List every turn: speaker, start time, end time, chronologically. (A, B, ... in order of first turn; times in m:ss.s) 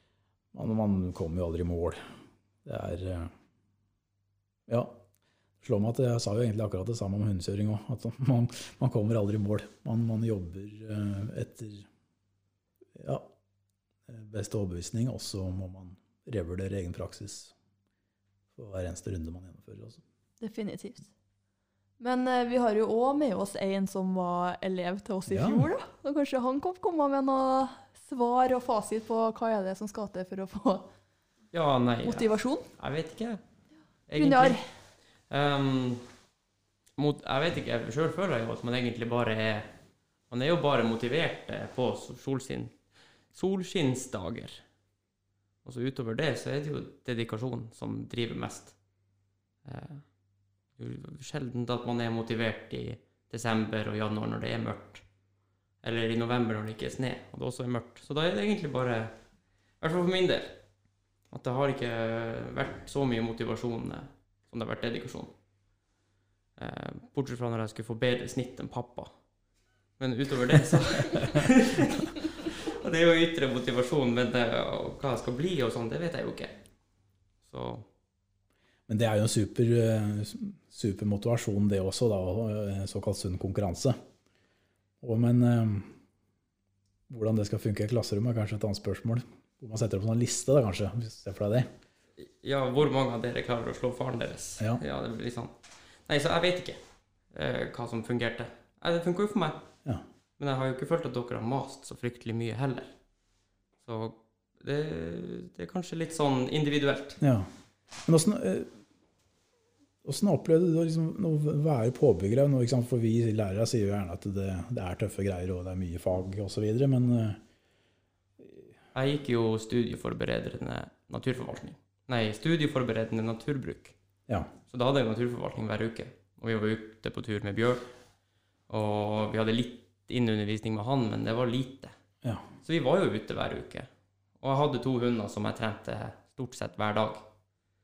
0:00.5-0:02.0 A
0:02.6-0:03.3 A
0:04.7-0:05.0 A
0:05.6-0:11.9 A
0:13.0-0:13.3 A
0:14.1-0:17.5 A
0:18.6-0:20.0 A
0:20.4-0:21.1 B
0:22.0-0:30.9 B
0:25.3-0:25.7 A
0:31.5-0:33.4 C
0:32.0-0:32.7 B
0:34.1-0:34.7 C
0:34.1-0:34.6 B
0:35.3-0:36.1 C
0:37.0-0:39.7 C
0:40.3-0:42.8 C
0:43.3-0:44.6 C
0:45.6-0:48.8 C
0:49.6-0:50.2 C
0:50.8-0:55.0 C
0:55.8-0:59.2 C
0:59.8-1:00.6 C
1:01.3-1:05.3 C
1:06.6-1:09.1 C
1:10.0-1:16.6 C
1:17.4-1:17.9 C
1:18.9-1:24.0 A
1:25.0-1:26.0 A
1:27.1-1:31.7 A
1:32.2-1:36.8 C
1:37.3-1:39.6 C
1:40.4-1:42.9 C
1:43.8-1:47.2 C
1:47.2-1:47.5 A
1:48.1-1:48.7 A
1:50.0-1:57.4 A
1:58.4-1:58.7 A
1:59.0-2:04.0 C
2:04.7-2:07.9 C
2:08.7-2:12.0 C
2:12.6-2:13.9 C
2:14.4-2:17.2 C